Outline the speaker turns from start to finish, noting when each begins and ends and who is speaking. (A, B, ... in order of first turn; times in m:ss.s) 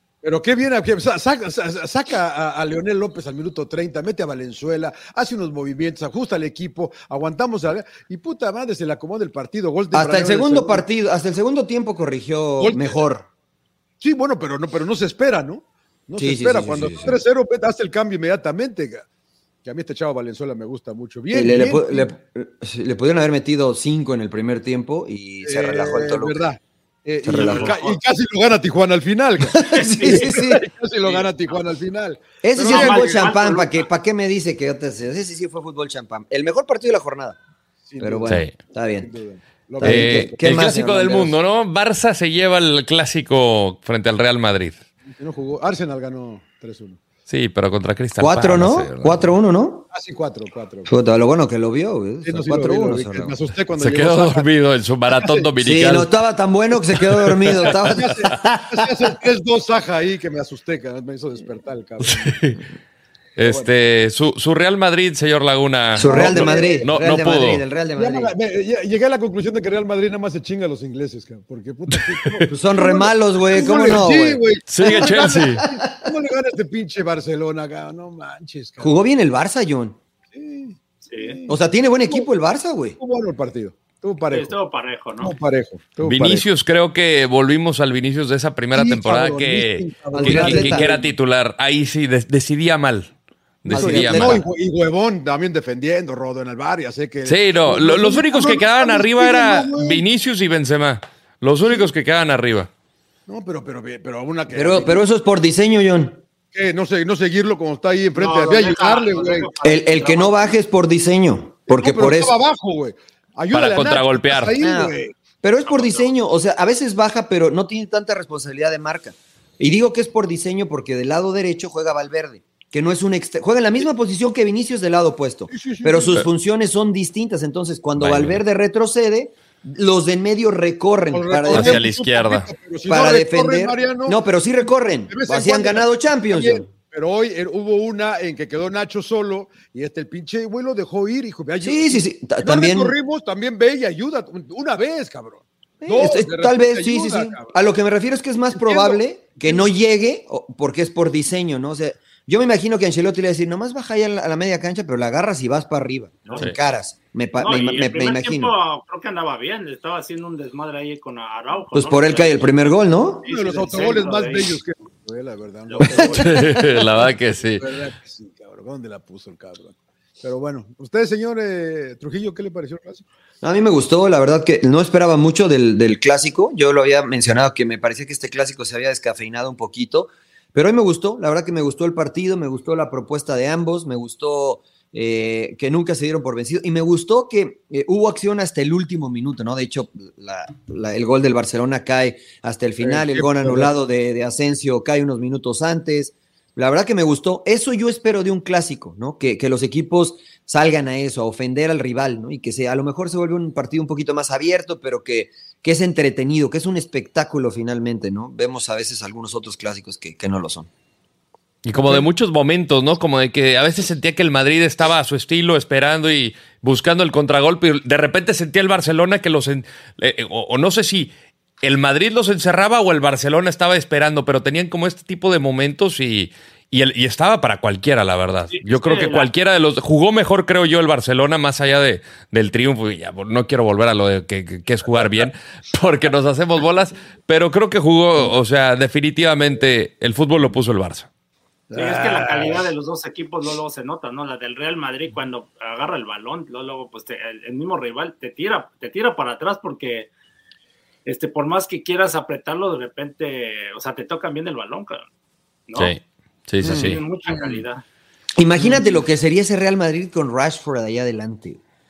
0:00.2-0:10.8 A
0:09.9-0:13.3 B
0:12.6-0:13.0 A
0:14.0-0:19.1 A
0:16.2-0:17.2 B
0:19.6-0:22.1 A
0:21.3-0:26.4 B
0:25.4-0:33.3 A
0:27.2-0:27.8 B
0:27.4-0:28.0 C
0:29.4-0:30.6 B
0:29.7-0:30.3 C
0:31.0-0:31.6 C
0:32.4-0:37.4 B
0:32.6-0:33.9 C
0:37.9-0:40.4 A
0:38.0-0:39.1 B
0:39.8-0:41.4 B
0:39.8-0:44.8 D
0:45.1-0:47.0 A
0:47.3-0:49.3 D
0:48.2-0:49.9 B
0:49.9-0:50.9 A
0:50.9-0:53.4 B
0:52.2-0:54.5 A
0:53.8-0:56.1 D
0:55.1-0:55.5 A
0:55.6-0:59.0 B
0:56.9-0:57.9 D
0:57.6-1:02.4 A
1:02.0-1:02.6 D
1:03.4-1:07.6 D
1:03.4-1:03.7 A
1:06.0-1:08.3 B
1:06.0-1:06.9 A
1:08.0-1:18.9 A
1:11.9-1:12.5 D
1:12.5-1:16.1 B
1:14.7-1:15.6 D
1:18.8-1:20.0 B
1:20.3-1:22.3 A
1:21.0-1:21.4 C
1:21.5-1:23.0 B
1:23.0-1:24.6 A
1:24.3-1:25.3 C
1:25.2-1:26.4 A
1:26.0-1:33.1 D
1:28.7-1:31.1 A
1:30.1-1:30.9 B
1:33.6-1:34.4 D
1:33.7-1:34.4 B
1:33.7-1:40.0 A
1:37.3-1:42.7 D
1:41.6-1:41.9 A
1:43.3-1:45.0 A
1:44.5-1:46.2 B
1:46.5-1:49.5 A
1:48.2-1:50.6 C
1:49.6-1:52.4 B
1:51.7-1:55.1 A
1:53.5-1:54.6 D
1:54.6-2:11.8 B
1:55.7-1:56.1 C
2:05.5-2:06.2 A
2:08.0-2:08.4 D
2:11.1-2:27.6 A
2:11.5-2:12.5 D
2:12.9-2:16.7 B
2:21.6-2:23.0 B
2:25.8-2:38.5 B
2:28.5-2:29.7 A
2:37.4-2:44.6 C
2:41.7-2:43.2 B
2:43.2-2:53.1 A
2:45.7-2:46.4 C
2:45.9-2:46.2 B
2:46.2-2:47.7 D
2:53.4-3:30.7 B
3:12.8-3:13.7 A
3:31.6-4:01.1 D
3:48.5-3:49.3 C
4:01.7-4:02.6 A
4:01.7-4:10.1 C
4:11.0-4:15.0 C
4:15.7-4:15.9 C
4:15.8-4:17.0 D
4:16.6-4:17.0 B
4:16.6-4:17.8 C
4:18.4-4:21.6 B
4:18.6-4:19.0 A